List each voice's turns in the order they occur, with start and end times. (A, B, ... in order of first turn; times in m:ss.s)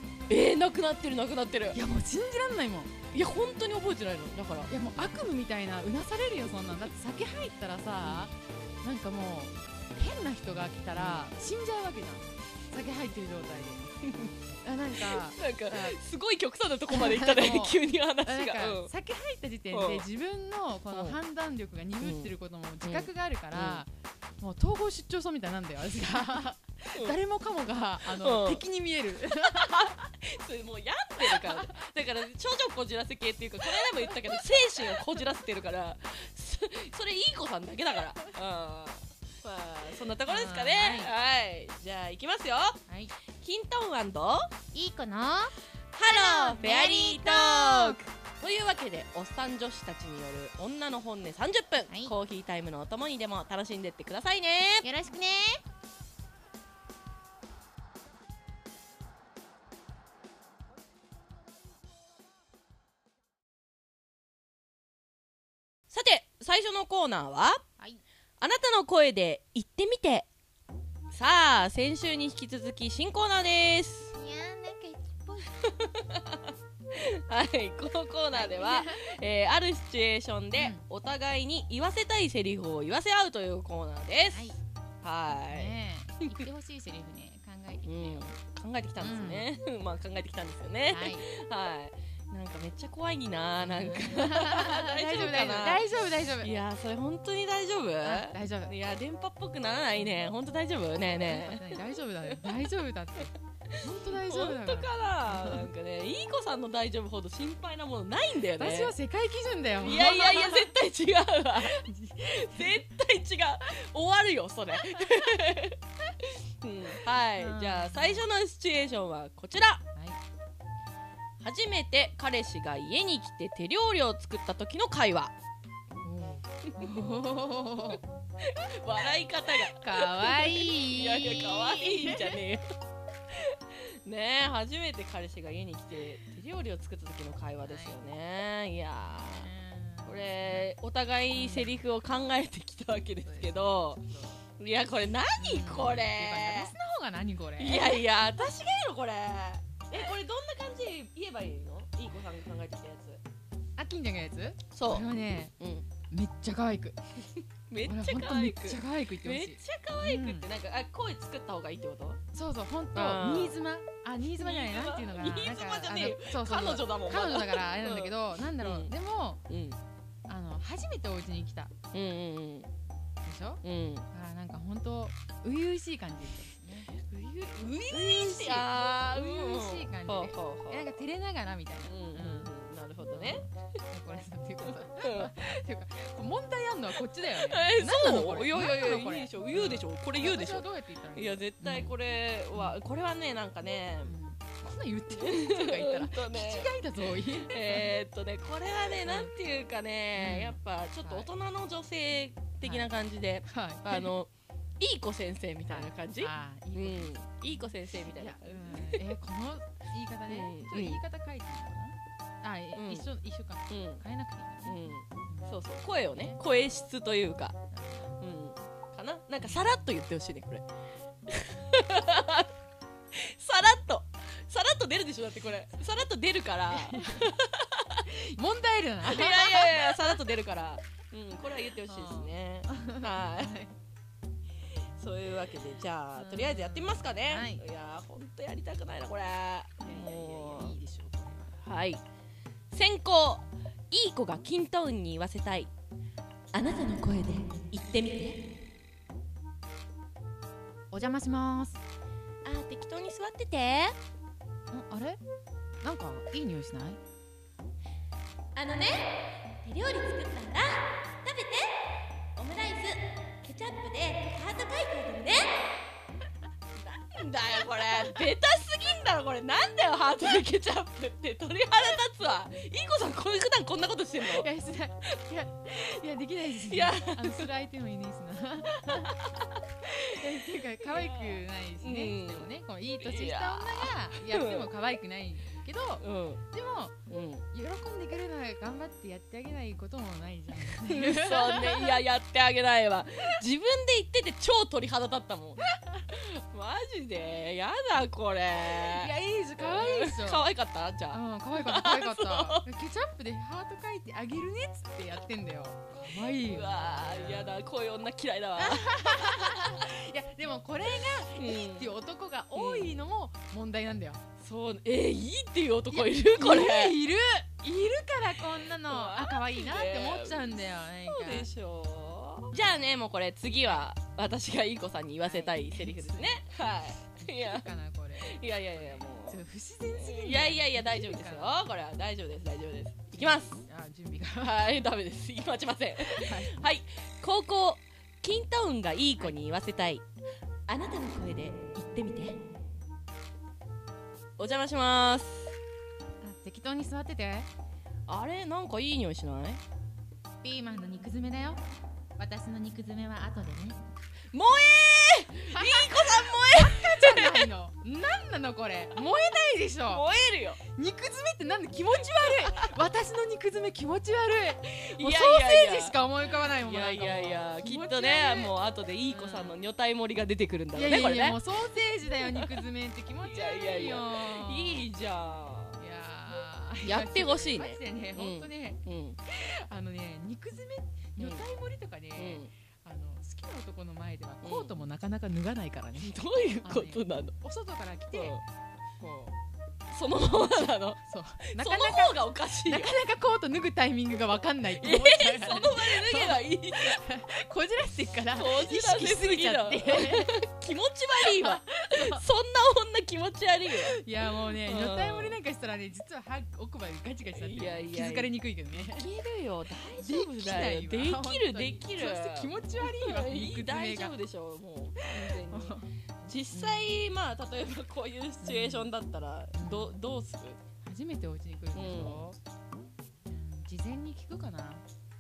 0:00.3-0:01.8 A
0:01.7-0:03.0 B
0:03.1-0:04.7 A
0:04.7-0:14.0 B
0:08.0-0:08.3 A
0:11.0-0:11.3 A
0:14.0-0:14.3 A
0:14.6-0:16.0 B
0:15.0-0:18.9 A
0:16.9-0:23.9 B
0:19.7-0:20.0 A
0:20.9-0:21.2 A
0:22.0-0:22.3 A
0:22.8-0:23.8 A
0:24.4-0:30.1 B
0:28.0-0:28.6 A
0:29.5-0:42.8 A
0:31.2-0:31.8 B
0:33.7-0:35.0 B
0:40.3-0:41.1 B
0:43.4-0:44.6 A
0:44.7-0:45.5 C
0:45.9-0:54.9 A
0:46.1-0:47.8 C
0:46.4-0:47.9 B
0:54.8-0:55.6 C
1:05.9-1:07.6 A
1:08.4-1:10.3 A
1:11.1-1:14.1 A
1:14.2-1:14.8 B
1:14.3-1:15.4 C
1:15.6-1:25.8 A
1:18.3-1:19.1 B
1:20.6-1:20.8 B
1:25.5-1:28.3 B
1:27.8-1:35.8 A
1:29.0-1:29.5 B
1:30.9-1:31.2 B
1:33.6-1:36.6 B
1:36.4-1:42.5 A
1:38.0-1:38.7 B
1:41.2-1:45.7 B
1:43.7-1:49.0 A
1:48.5-1:50.7 B
1:49.8-1:59.8 A
1:51.6-1:52.8 B
1:57.4-1:58.3 B
2:00.0-2:00.2 B
2:01.4-2:05.3 A
2:06.0-2:08.0 B
2:08.4-2:12.6 A
2:09.6-2:12.4 B
2:13.3-2:19.5 A
2:17.7-2:18.0 B
2:19.1-2:20.7 B
2:20.1-2:26.7 A
2:21.3-2:21.7 B
2:23.2-2:24.4 B
2:25.4-2:28.0 B
2:27.6-2:33.2 A
2:33.8-2:35.5 B
2:34.7-2:35.1 A
2:35.6-2:35.9 A
2:36.1-2:37.0 B
2:37.7-2:42.2 A
2:37.8-2:40.5 B
2:42.3-2:49.4 B
2:43.0-2:43.6 A
2:44.4-2:48.9 A
2:49.5-2:49.8 A
2:50.3-2:51.7 B
2:51.9-2:52.7 A
2:53.2-2:56.9 B
2:53.6-2:54.1 A
2:57.0-3:01.0 A
2:57.6-3:02.5 B
3:01.9-3:03.4 A
3:03.1-3:11.9 B
3:04.9-3:05.4 A
3:07.3-3:14.2 A
3:14.0-3:17.9 B
3:15.1-3:16.7 A
3:17.5-3:29.0 A
3:19.0-3:19.3 B
3:20.2-3:21.3 B
3:22.6-3:22.9 B
3:23.5-3:24.1 B
3:25.7-3:36.4 B
3:30.3-3:31.0 A
3:32.8-3:33.1 A
3:33.7-3:34.0 A
3:34.6-3:37.6 A
3:37.7-3:38.1 B
3:38.2-3:40.6 A
3:41.3-3:42.5 A
3:43.1-3:48.0 A
3:46.7-3:47.3 B
3:48.1-3:50.3 B
3:49.0-3:53.6 A
3:51.8-3:53.8 B
3:54.8-4:00.8 A
3:56.1-3:57.6 B
3:59.8-4:01.6 B
4:01.6-4:02.0 A
4:02.7-4:05.7 A
4:06.5-4:08.5 A
4:10.9-4:11.8 B
4:12.4-4:14.0 A
4:14.7-4:15.2 B
4:15.8-4:17.0 B
4:18.6-4:25.8 A
4:26.7-4:34.5 A
4:34.2-4:39.2 B
4:36.7-4:37.5 A
4:38.9-4:39.6 A
4:39.9-4:52.0 B
4:40.3-4:42.5 A
4:43.0-4:44.7 A
4:46.0-4:46.4 A
4:47.1-4:47.4 A
4:50.7-5:02.6 A
4:58.8-5:00.5 B
5:01.1-5:07.6 B
5:06.0-5:09.9 A
5:08.6-5:14.2 B
5:11.4-5:11.9 A
5:12.6-5:13.0 A
5:14.4-5:17.0 A
5:15.9-5:21.5 B
5:18.8-5:20.6 A
5:21.1-5:27.7 A
5:25.2-5:26.4 B
5:27.2-5:31.6 B
5:28.2-5:29.4 A
5:30.0-5:33.6 A
5:33.1-5:34.6 B
5:34.4-5:40.0 A
5:36.0-5:36.6 B
5:40.7-5:42.4 A
5:44.4-5:45.6 A
5:46.2-5:47.5 B
5:48.1-5:49.6 A
5:50.4-5:51.6 B
5:52.2-5:53.8 B
5:54.3-5:57.5 A
5:55.5-6:00.0 B
5:59.9-6:00.6 A
6:00.6-6:08.5 B
6:02.2-6:02.7 A
6:05.0-6:06.0 A
6:06.6-6:11.4 A
6:09.1-6:09.6 B
6:10.7-6:14.9 B
6:12.3-6:12.7 A
6:13.3-6:15.8 A
6:15.8-6:28.4 B
6:16.8-6:19.2 A
6:21.2-6:21.4 A
6:22.2-6:22.5 A
6:24.4-6:24.7 A
6:26.0-6:27.4 A
6:28.1-6:28.4 A
6:29.0-6:29.4 B
6:29.9-6:31.0 A
6:31.0-6:40.4 B
6:31.5-6:33.0 A
6:34.8-6:37.0 A
6:38.4-6:45.4 A
6:41.2-6:42.2 B
6:43.9-6:49.1 B
6:47.3-7:00.6 A
6:50.0-6:54.1 B
6:55.2-6:55.9 B
6:56.5-6:56.9 B
6:58.4-6:58.9 B
6:59.5-7:00.0 B
7:00.8-7:02.4 B
7:01.7-7:02.2 A
7:03.3-7:04.8 B